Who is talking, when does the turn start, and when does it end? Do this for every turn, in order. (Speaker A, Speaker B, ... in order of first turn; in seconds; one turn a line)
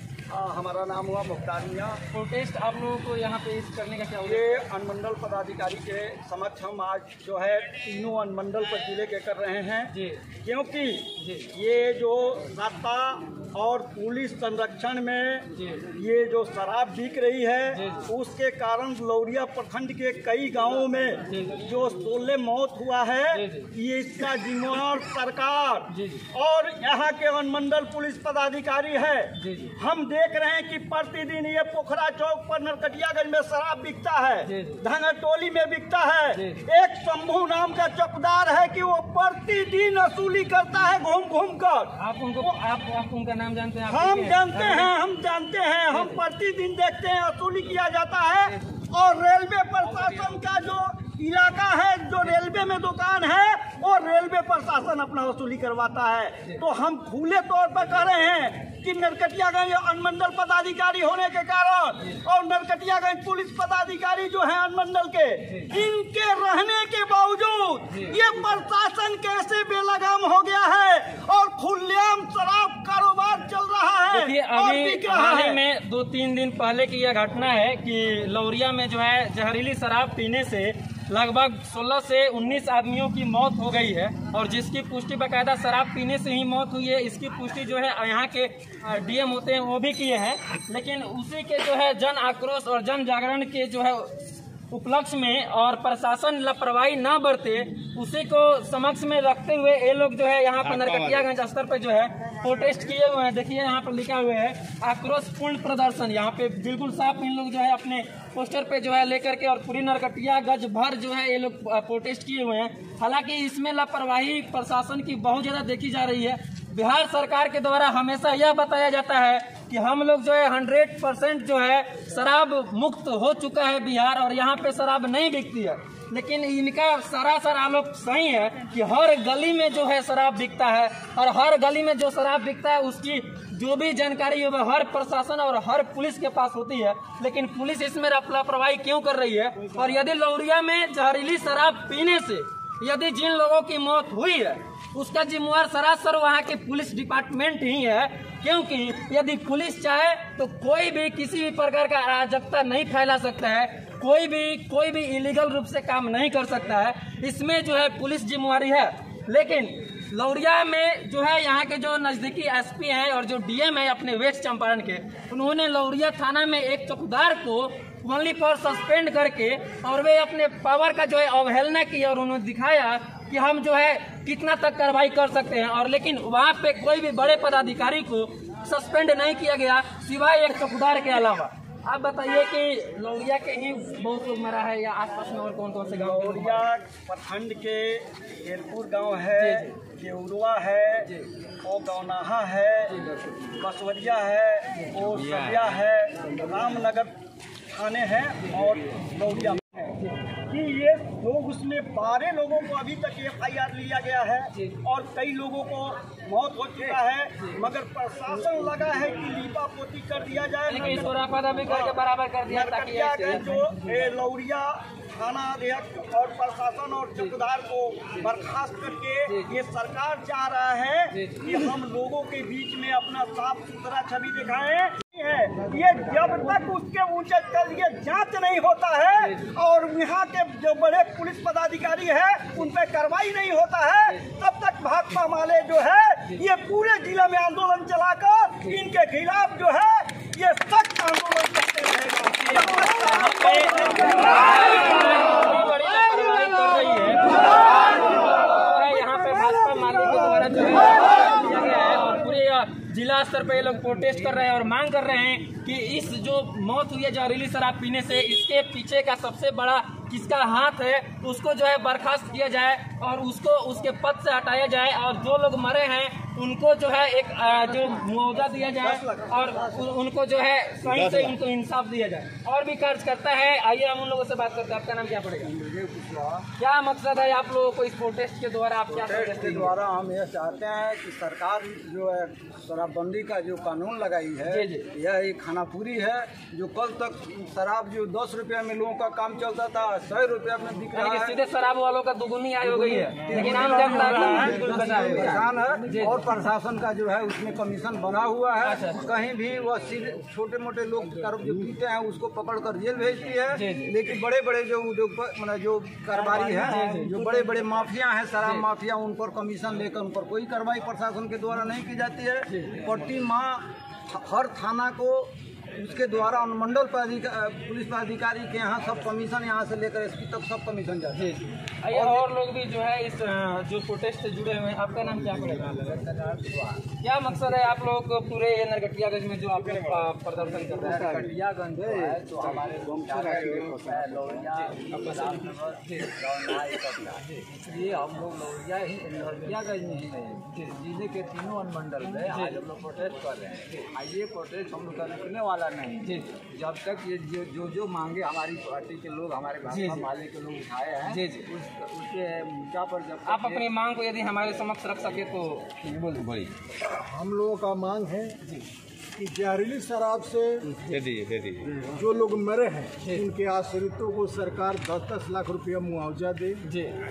Speaker A: 0.3-2.0
Speaker B: 2.1-4.6
Speaker A: 4.2-41.9
Speaker B: 9.9-10.2
Speaker B: 11.2-11.5
Speaker B: 15.5-15.8
Speaker B: 17.7-18.1
Speaker B: 21.3-21.6
Speaker B: 23.3-23.7
Speaker B: 25.9-26.2
Speaker B: 29.4-29.7
Speaker B: 34.5-34.8
Speaker B: 36.3-36.6
Speaker B: 42.0-44.9
Speaker A: 43.9-75.6
Speaker B: 74.1-186.7
Speaker C: 100.8-101.1
Speaker A: 185.9-191.1
Speaker B: 189.4-189.7
Speaker A: 191.6-197.2
Speaker C: 195.2-195.6
Speaker A: 197.7-244.2
Speaker B: 210.7-213.8
Speaker B: 219.3-219.5
Speaker B: 221.1-221.7
Speaker B: 242.4-275.5
Speaker D: 268.8-269.8
Speaker C: 270.9-271.3
Speaker D: 275.5-276.4
Speaker B: 276.6-279.8
Speaker D: 278.9-291.4
Speaker B: 284.4-284.9
Speaker B: 290.9-296.3
Speaker D: 292.6-321.3
Speaker A: 293.4-295.5
Speaker E: 294.2-295.0
Speaker B: 298.6-299.1
Speaker B: 303.5-303.9
Speaker B: 306.2-307.5
Speaker A: 306.6-307.2
Speaker B: 312.5-312.8
Speaker B: 321.1-325.8
Speaker D: 321.9-322.2
Speaker D: 325.8-326.8
Speaker B: 327.0-331.3
Speaker D: 330.7-353.6
Speaker A: 332.8-333.8
Speaker C: 333.2-334.1
Speaker B: 335.0-335.3
Speaker B: 342.1-342.6
Speaker B: 346.0-346.3
Speaker B: 349.7-350.1
Speaker B: 351.0-351.5
Speaker B: 353.2-356.5
Speaker E: 356.9-358.4
Speaker E: 359.1-360.8
Speaker C: 360.8-361.8
Speaker E: 361.8-366.6
Speaker B: 366.6-366.9